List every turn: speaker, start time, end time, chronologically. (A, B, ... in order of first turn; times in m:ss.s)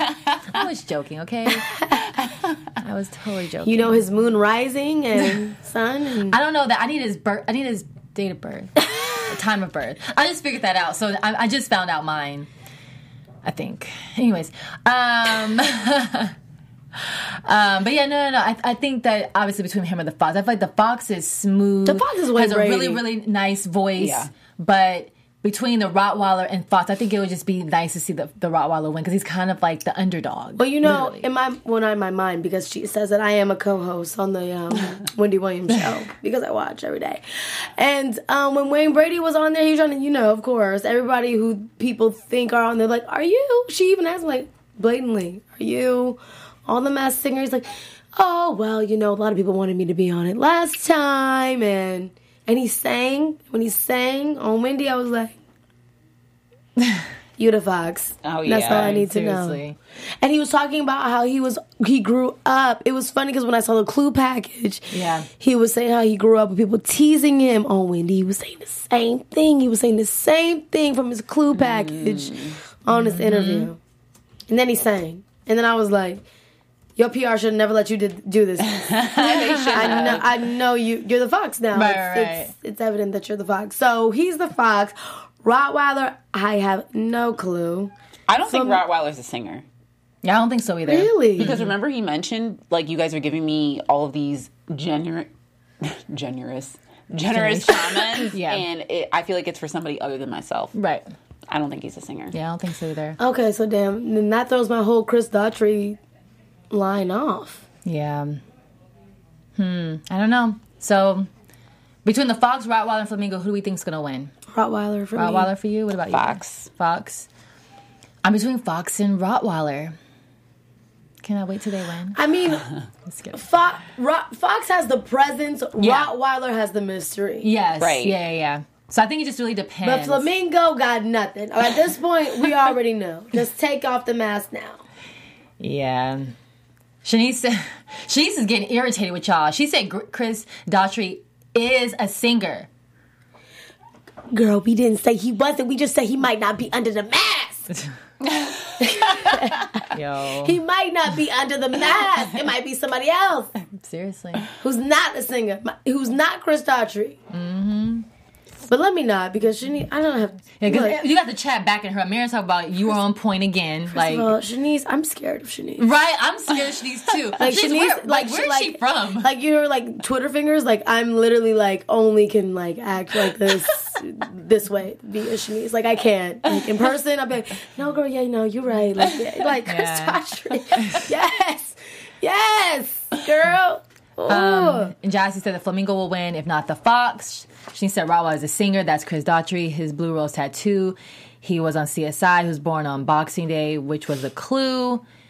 0:00.4-0:01.7 A
0:01.7-0:02.0 B
0:02.8-0:04.1 A
0:03.6-0:06.4 B
0:06.3-0:12.5 A
0:13.4-0:16.3 A
0:16.9-0:31.2 A
0:21.8-0:23.0 B
0:24.0-0:24.3 C
0:30.6-0:55.3 B
0:56.8-0:57.0 A
0:57.4-0:59.6 B
0:58.2-0:59.0 C
0:58.7-0:59.8 A
1:00.2-1:13.8 B
1:04.9-1:05.3 A
1:11.6-1:12.5 C
1:12.9-1:13.7 A
1:14.5-1:16.2 B
1:17.0-1:27.9 B
1:18.7-1:20.3 C
1:19.2-1:20.2 A
1:21.7-1:22.5 A
1:28.3-1:29.6 C
1:28.5-1:28.8 B
1:30.2-1:31.7 A
1:30.9-1:31.5 B
1:31.4-1:35.3 C
1:35.8-1:40.7 C
1:37.3-1:38.6 A
1:40.7-1:41.0 A
1:41.5-1:42.4 C
1:42.3-1:43.2 A
1:43.2-1:46.0 B
1:46.7-1:47.6 B
1:47.8-1:48.4 A
1:49.6-1:51.3 A
1:52.0-1:54.3 A
1:54.5-1:55.5 B
1:55.1-1:57.3 A
1:56.1-1:56.7 C
1:58.2-2:00.0 A
2:01.2-2:02.2 A
2:02.1-2:02.7 B
2:03.1-2:03.4 A
2:03.3-2:07.5 B
2:05.8-2:06.1 A
2:07.4-2:10.3 A
2:07.8-2:08.2 C
2:09.8-2:14.8 B
2:15.6-2:16.3 A
2:17.0-2:22.7 A
2:24.3-2:27.7 B
2:28.8-2:29.8 B
2:29.2-2:30.6 A
2:30.4-2:33.5 B
2:33.6-2:34.4 A
2:34.6-2:37.2 B
2:37.3-2:38.1 A
2:38.7-2:41.0 B
2:40.6-2:44.3 A
2:43.9-2:45.9 B
2:45.8-2:49.3 A
2:47.4-3:04.9 B
2:59.6-3:01.1 A
3:04.3-3:15.0 A